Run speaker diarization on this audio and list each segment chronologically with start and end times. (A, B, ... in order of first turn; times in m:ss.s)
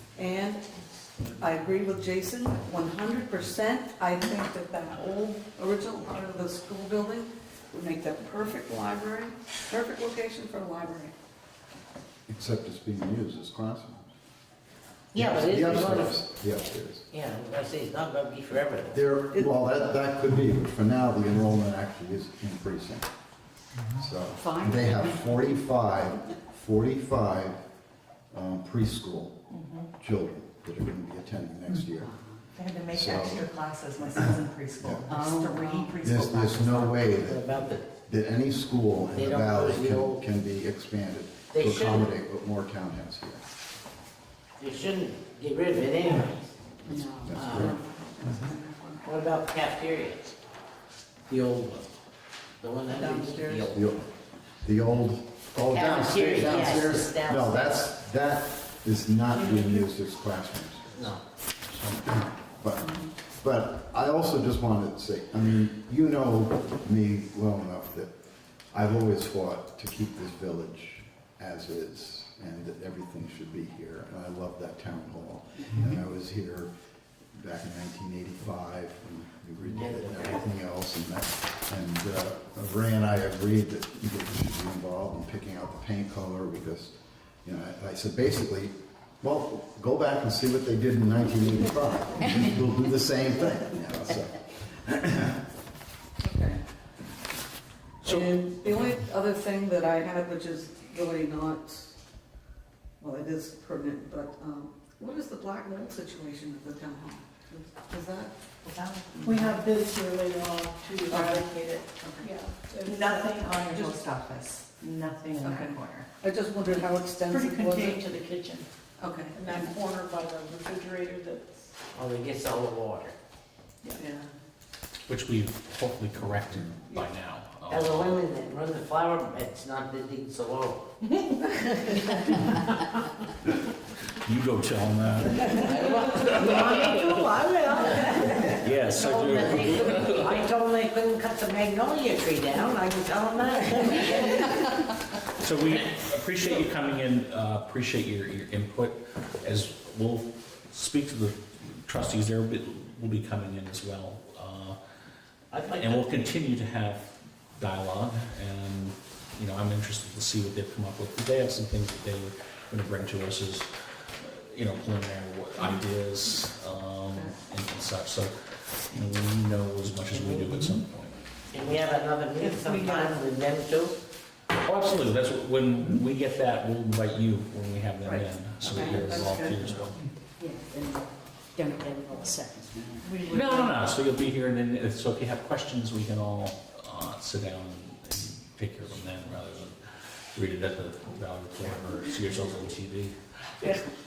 0:00.2-0:00.6 A
0:01.3-0:11.1 A
0:12.3-0:14.0 B
0:15.1-0:16.2 C
0:15.1-0:17.0 B
0:17.1-0:19.0 C
0:18.9-0:23.1 B
0:24.0-0:27.6 B
0:24.6-0:25.0 D
0:28.3-0:29.4 B
0:30.0-0:32.2 B
0:32.5-0:36.9 D
0:32.9-0:33.4 B
0:34.8-0:35.1 B
0:36.0-0:43.4 B
0:37.2-0:37.8 C
0:39.1-0:40.2 C
0:41.5-0:42.1 C
0:44.6-0:46.5 C
0:46.9-0:47.7 B
0:46.9-0:47.4 E
0:47.2-0:49.1 A
0:47.4-0:47.7 C
0:49.0-0:50.3 C
0:51.3-0:51.9 C
0:52.6-0:53.8 C
0:52.9-0:53.8 A
0:53.7-0:54.0 B
0:54.6-1:01.1 B
0:55.7-0:57.8 C
0:59.3-0:59.8 F
1:00.9-1:01.2 C
1:01.8-1:08.1 B
1:08.7-1:16.7 B
1:17.3-1:35.4 B
1:19.6-1:20.4 C
1:36.2-1:36.6 A
1:38.0-1:38.4 G
1:38.0-1:41.9 A
1:43.0-1:48.3 A
1:48.6-1:49.2 D
1:49.2-1:49.6 A
1:49.2-1:53.6 F
1:51.1-1:52.3 A
1:52.8-1:56.1 D
1:55.4-1:58.1 A
1:57.2-1:58.6 F
1:59.0-1:59.7 A
1:59.3-2:01.6 F
2:01.9-2:03.1 C
2:03.9-2:04.3 A
2:05.1-2:08.2 G
2:07.7-2:12.6 C
2:14.2-2:17.1 G
2:15.5-2:24.7 C
2:18.5-2:20.4 G
2:25.4-2:34.8 G
2:35.5-2:36.3 C
2:35.7-2:48.3 G
2:48.9-2:51.2 G
2:50.1-2:50.7 C
2:51.5-2:54.0 C
2:52.4-2:53.2 F
2:54.6-3:00.0 G
2:58.0-2:59.9 A
3:00.4-3:01.0 E
3:01.6-3:03.0 E
3:03.1-3:03.7 F
3:03.3-3:09.7 G
3:10.3-3:13.8 G